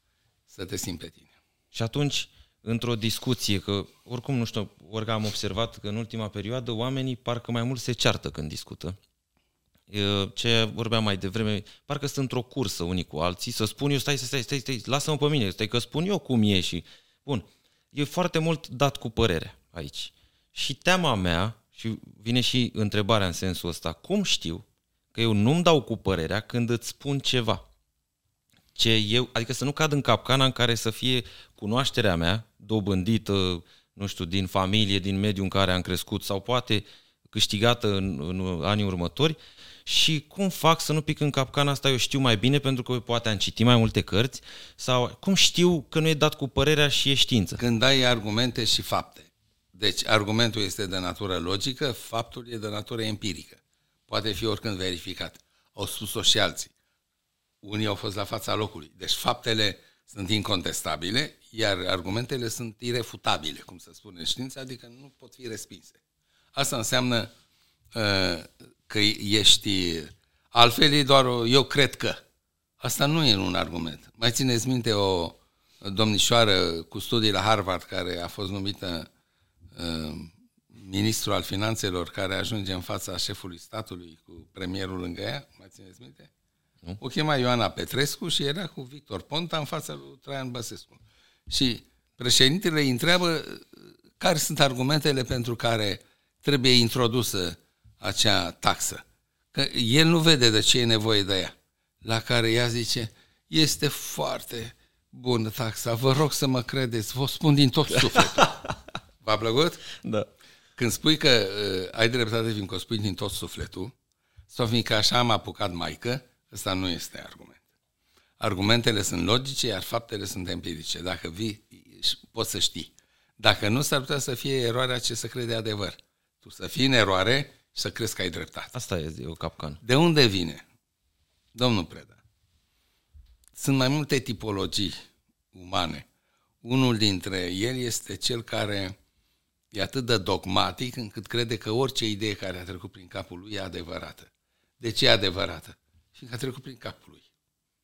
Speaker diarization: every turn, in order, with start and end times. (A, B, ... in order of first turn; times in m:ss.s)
0:00.5-0:01.3 A
0:01.7-0:09.0 B
0:09.9-0:27.6 B
0:28.7-0:47.6 B
0:47.6-0:56.7 A
0:57.6-1:06.0 A
1:06.5-1:07.3 A
1:07.9-1:12.2 A
1:12.8-1:19.1 A
1:19.7-1:26.3 A
1:27.0-1:48.5 A
1:48.0-1:48.7 B
1:49.2-1:49.8 A
1:49.9-1:50.3 B
1:50.8-1:53.9 A
1:54.5-1:57.6 A
1:58.4-2:08.7 A
2:08.7-2:09.8 B
2:09.8-2:10.6 A
2:11.5-2:12.2 A
2:13.5-2:16.1 A
2:16.6-2:19.0 A
2:19.7-2:27.2 A